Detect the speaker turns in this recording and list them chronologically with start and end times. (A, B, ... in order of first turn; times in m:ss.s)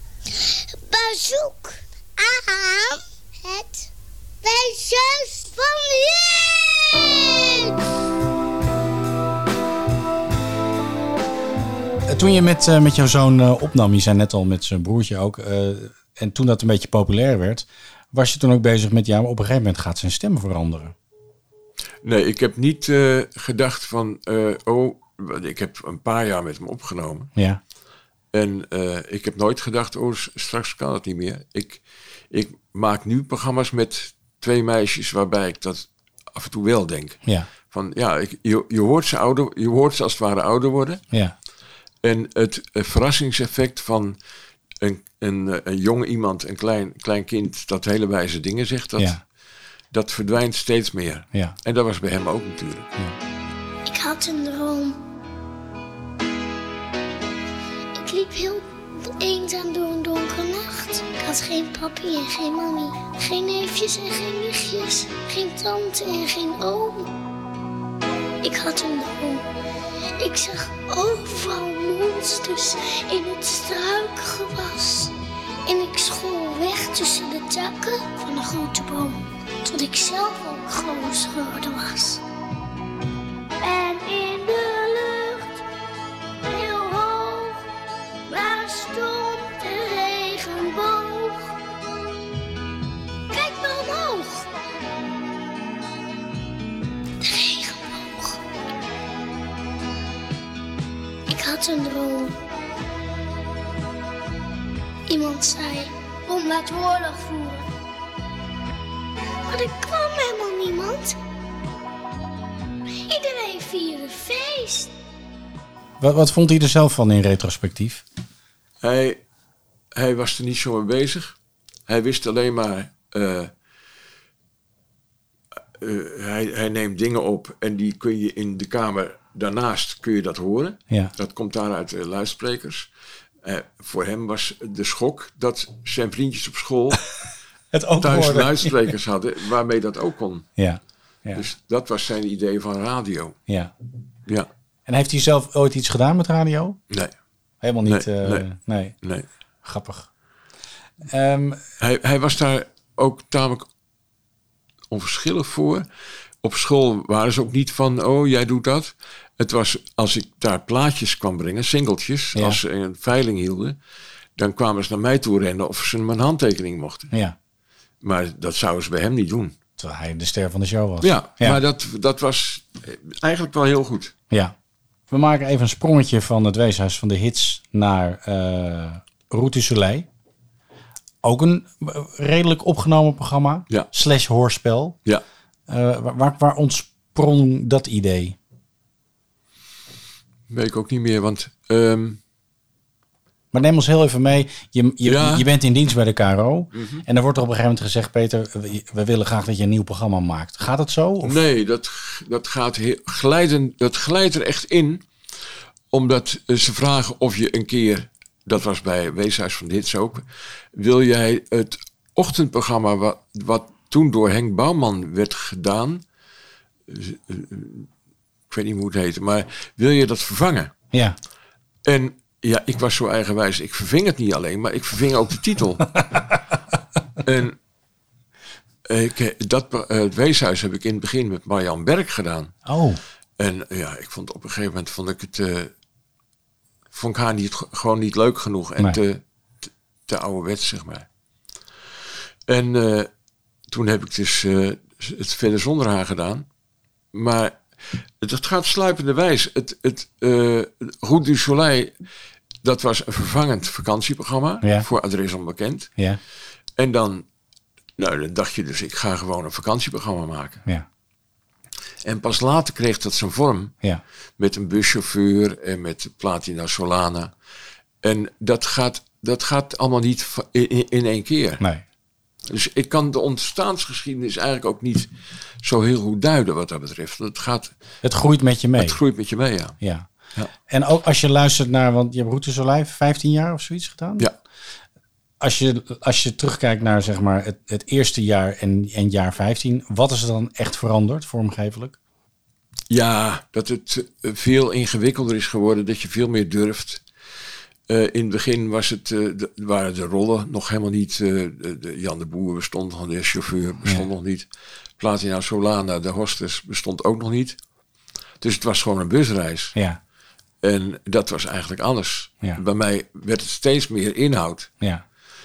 0:00.3-0:03.9 A
0:04.4-0:07.7 A
0:12.1-0:20.9 B
0:22.0-0:27.3 C
0:27.3-0:27.6 B
0:28.3-0:41.0 C
0:42.0-0:44.2 C
0:44.8-0:49.2 C
0:49.9-0:52.9 C
0:53.8-0:55.0 A
0:57.9-1:07.1 A
1:08.4-1:09.4 A
1:10.2-1:15.1 A
1:15.6-1:22.2 A
1:23.6-1:25.6 A
1:26.4-1:27.6 A
1:28.3-1:31.5 A
1:33.3-1:34.5 A
1:37.2-1:38.4 A
1:41.3-1:42.4 A
1:45.1-1:47.7 A
1:49.5-1:51.2 A
1:53.0-1:54.9 A
1:56.0-1:58.0 B
1:58.8-1:59.2 C
1:59.9-2:01.4 C
2:01.9-2:03.5 C
2:05.8-2:12.9 C
2:13.4-2:17.0 C
2:17.7-2:18.9 B
2:18.0-2:20.5 C
2:20.6-2:21.4 B
2:21.3-2:23.4 C
2:23.5-2:23.7 B
2:24.8-2:26.8 B
2:27.6-2:29.0 B
2:27.8-2:28.4 C
2:29.6-2:30.1 B
2:31.0-2:31.6 B
2:31.8-2:33.7 C
2:34.9-2:35.8 C
2:36.4-2:43.8 C
2:42.3-2:42.6 B
2:44.4-2:47.1 C
2:48.0-2:49.6 C
2:49.8-2:51.6 B
2:51.0-2:54.1 C
2:55.1-3:00.1 B
3:01.2-3:05.0 B
3:05.7-3:08.4 B
3:10.5-3:12.2 C
3:13.5-3:21.4 B
3:15.0-3:15.5 C
3:16.7-3:17.0 C
3:21.2-3:25.0 C
3:25.9-3:30.2 C
3:30.7-3:36.0 C
3:36.9-3:37.9 C
3:38.5-3:40.7 C
3:41.8-3:45.9 C
3:47.2-3:47.6 C
3:48.9-3:52.5 C
3:52.6-3:53.0 B
3:53.4-3:55.7 C
3:56.9-3:59.2 C
4:00.1-4:01.1 C
4:02.5-4:03.1 C
4:03.7-4:06.4 C
4:07.1-4:07.6 C
4:08.2-4:11.9 C
4:12.6-4:15.9 C
4:14.6-4:14.9 B
4:16.8-4:17.2 C
4:18.0-4:20.6 C
4:22.0-4:23.7 C
4:24.4-4:27.3 C
4:28.0-4:31.6 C
4:32.5-4:35.1 C
4:35.6-4:37.7 C
4:38.0-4:39.0 B
4:38.8-4:39.8 C
4:39.8-4:40.1 B
4:40.7-4:44.3 B
4:45.4-4:52.0 B
4:52.9-4:57.0 C
4:57.9-5:07.6 C
5:08.4-5:09.7 C
5:09.7-5:10.0 B
5:10.6-5:14.7 C